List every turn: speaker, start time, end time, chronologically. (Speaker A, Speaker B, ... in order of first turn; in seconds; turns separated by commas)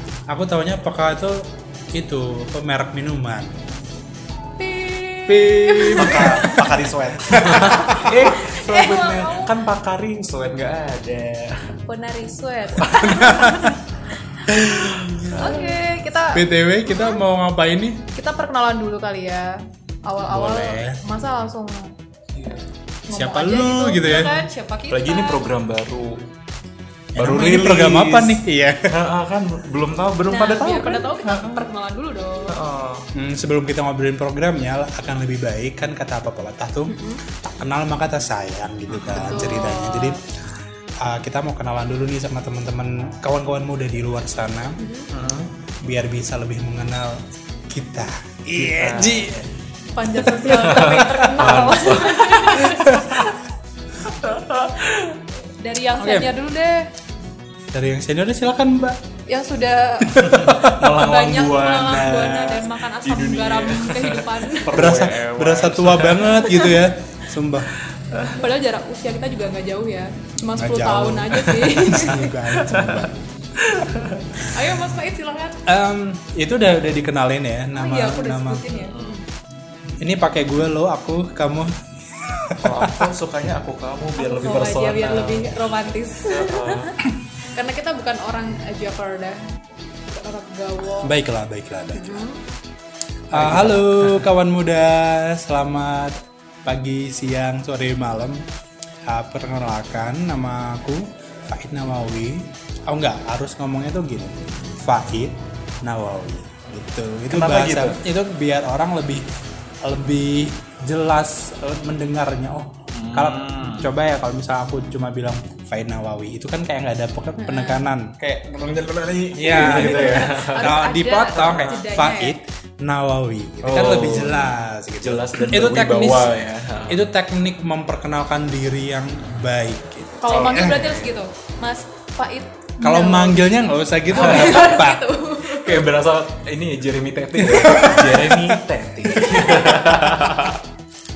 Speaker A: 0.3-3.5, Speaker B: 4.6-6.7, Speaker A: 5.3-8.1, Speaker C: 5.8-11.8, Speaker B: 7.4-9.5, Speaker B: 11.8-13.8, Speaker C: 12.8-13.1, Speaker A: 13.0-13.8, Speaker B: 14.3-17.2, Speaker A: 14.5-15.5, Speaker C: 15.2-15.7, Speaker A: 16.3-18.0, Speaker B: 18.1-21.9, Speaker A: 20.3-21.0, Speaker C: 22.3-22.6, Speaker B: 23.1-25.4, Speaker A: 23.1-24.4, Speaker C: 24.9-26.2, Speaker A: 27.1-28.9, Speaker C: 27.2-31.7, Speaker B: 30.3-32.6, Speaker C: 32.5-33.1, Speaker A: 33.1-40.2, Speaker B: 36.9-37.2, Speaker C: 38.9-39.5, Speaker B: 39.1-40.2, Speaker A: 41.0-44.8, Speaker B: 44.8-45.1, Speaker C: 45.1-45.5, Speaker A: 45.8-49.5, Speaker C: 48.6-49.4, Speaker B: 49.9-53.0, Speaker A: 50.1-50.5, Speaker C: 50.5-53.3, Speaker A: 52.8-53.2, Speaker C: 54.1-55.2, Speaker B: 55.6-56.9, Speaker A: 56.0-56.3, Speaker A: 57.7-59.0, Speaker B: 59.3-60.2, Speaker A: 60.0-61.0, Speaker C: 60.2-66.7, Speaker B: 60.9-65.0, Speaker A: 64.7-67.7, Speaker B: 66.4-66.8, Speaker C: 68.1-68.4, Speaker B: 68.3-72.3, Speaker A: 70.5-73.1, Speaker C: 72.5-74.2, Speaker B: 74.4-75.6, Speaker A: 75.7-78.7, Speaker B: 77.7-79.2, Speaker C: 78.7-79.2, Speaker A: 80.0-83.1, Speaker C: 82.6-87.0, Speaker B: 84.2-87.0, Speaker B: 87.5-89.4, Speaker B: 90.1-91.1, Speaker A: 91.0-92.2, Speaker B: 91.9-92.4, Speaker A: 93.3-98.5, Speaker C: 93.3-94.2, Speaker A: 99.1-109.2, Speaker C: 107.3-108.0, Speaker A: 109.8-118.1, Speaker C: 112.9-113.9, Speaker B: 117.4-117.8, Speaker C: 118.2-120.8, Speaker A: 119.3-126.4, Speaker B: 119.5-122.4, Speaker C: 121.3-121.8, Speaker C: 123.6-124.5, Speaker C: 125.0-127.0, Speaker A: 126.9-131.0, Speaker B: 130.2-133.4, Speaker C: 130.3-130.7, Speaker A: 132.8-135.0, Speaker B: 134.1-135.9, Speaker C: 134.2-134.7, Speaker C: 135.5-140.6, Speaker A: 137.4-138.6, Speaker B: 139.1-139.8, Speaker A: 139.3-139.5